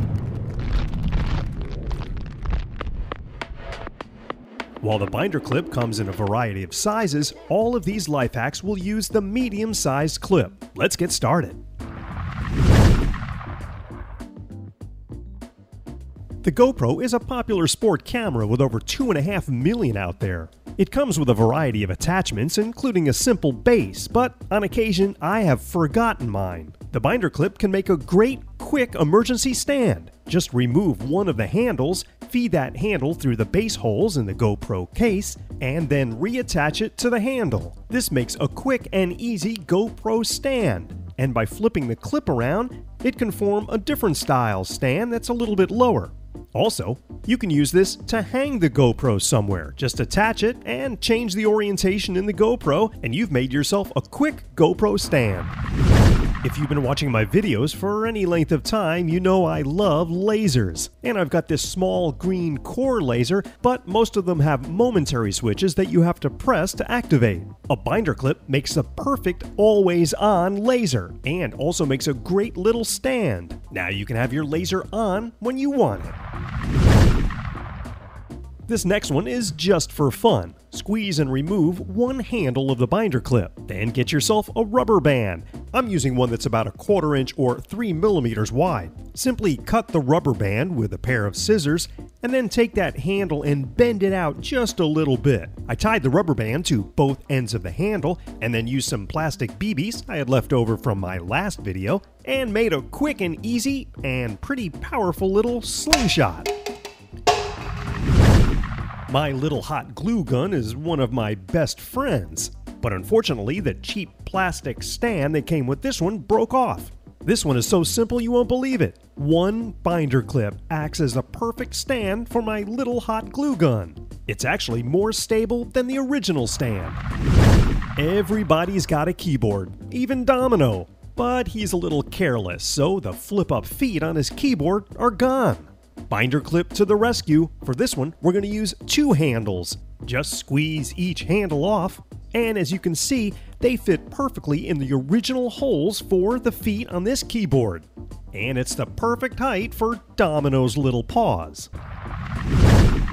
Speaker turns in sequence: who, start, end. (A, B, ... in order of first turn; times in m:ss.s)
0:04.8-0:11.6 A
0:16.4-0:55.5 A
0:56.4-1:16.2 A
1:18.7-1:46.5 A
1:49.1-2:07.0 A
2:08.0-2:31.7 A